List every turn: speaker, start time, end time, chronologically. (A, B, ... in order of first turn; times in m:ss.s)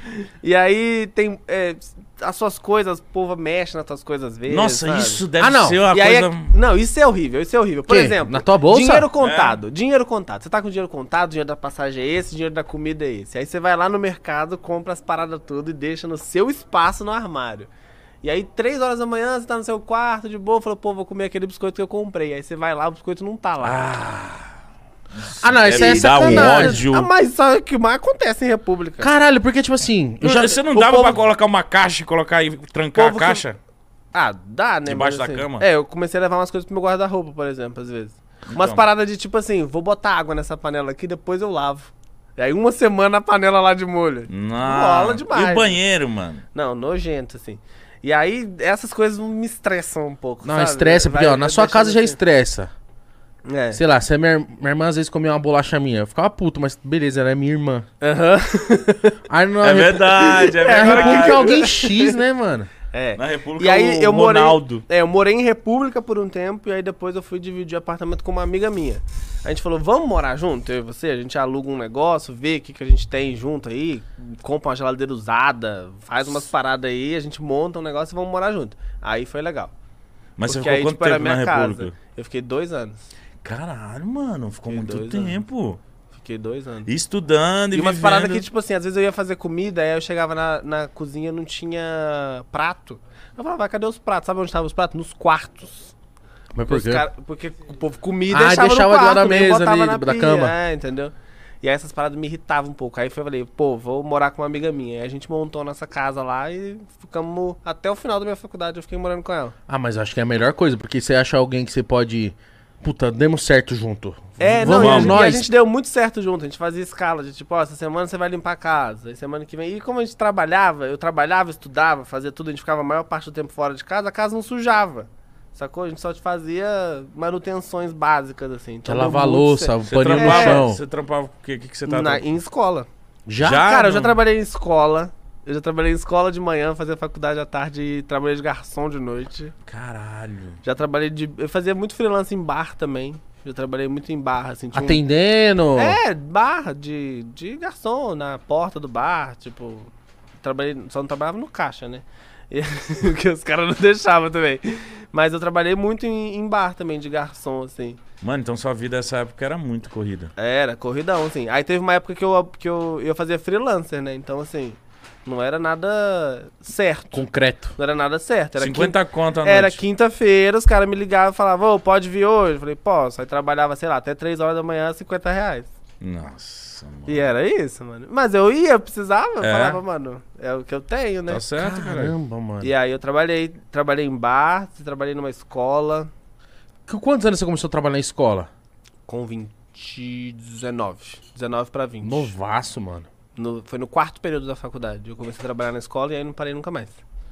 0:00.4-0:05.2 A
0:04.5-0:06.5 B
0:05.4-0:05.8 C
0:05.9-0:17.7 A
0:07.9-0:09.1 C
0:09.2-0:09.6 B
0:18.2-0:23.9 A
0:23.6-0:24.4 B
0:25.2-0:27.1 B
0:25.4-0:26.8 C
0:25.7-0:29.1 A
0:29.0-0:30.6 C
0:30.2-0:33.6 B
0:30.7-0:31.2 A
0:32.9-0:33.4 A
0:34.1-0:45.8 A
0:34.8-0:35.6 B
0:38.5-0:38.8 B
0:44.3-0:46.4 B
0:46.5-0:52.2 A
0:50.4-0:52.7 C
0:53.4-0:53.8 A
0:53.7-0:57.9 C
0:58.0-0:59.2 A
0:59.3-1:02.7 C
0:59.6-1:01.7 B
1:00.5-1:02.2 A
1:02.9-1:19.7 A
1:03.2-1:04.8 B
1:20.4-1:21.9 B
1:20.4-1:23.0 A
1:23.4-1:25.8 B
1:24.7-1:25.4 A
1:26.1-1:26.9 A
1:26.9-1:28.4 B
1:27.7-1:35.9 A
1:36.5-1:37.0 C
1:36.6-1:49.5 A
1:38.3-1:40.6 C
1:49.7-1:55.5 C
1:54.4-2:10.6 A
1:54.4-1:55.2 B
2:08.8-2:10.8 C
2:09.8-2:12.3 B
2:11.9-2:12.9 A
2:13.3-2:13.7 C
2:13.4-2:14.2 B
2:13.5-2:19.5 A
2:19.6-2:20.6 B
2:20.6-2:25.0 A
2:24.7-2:26.0 C
2:25.8-2:29.9 A
2:30.4-2:38.0 A
2:38.2-2:40.3 B
2:40.4-2:55.7 A
2:47.1-2:47.7 C
2:48.6-2:49.8 B
2:56.0-2:57.3 B
2:57.1-3:01.4 A
2:59.4-2:59.8 B
3:01.3-3:02.2 B
3:01.6-3:02.7 C
3:02.6-3:06.1 A
3:06.9-3:08.5 C
3:09.0-3:12.3 A
3:12.0-3:13.1 C
3:13.4-3:17.0 A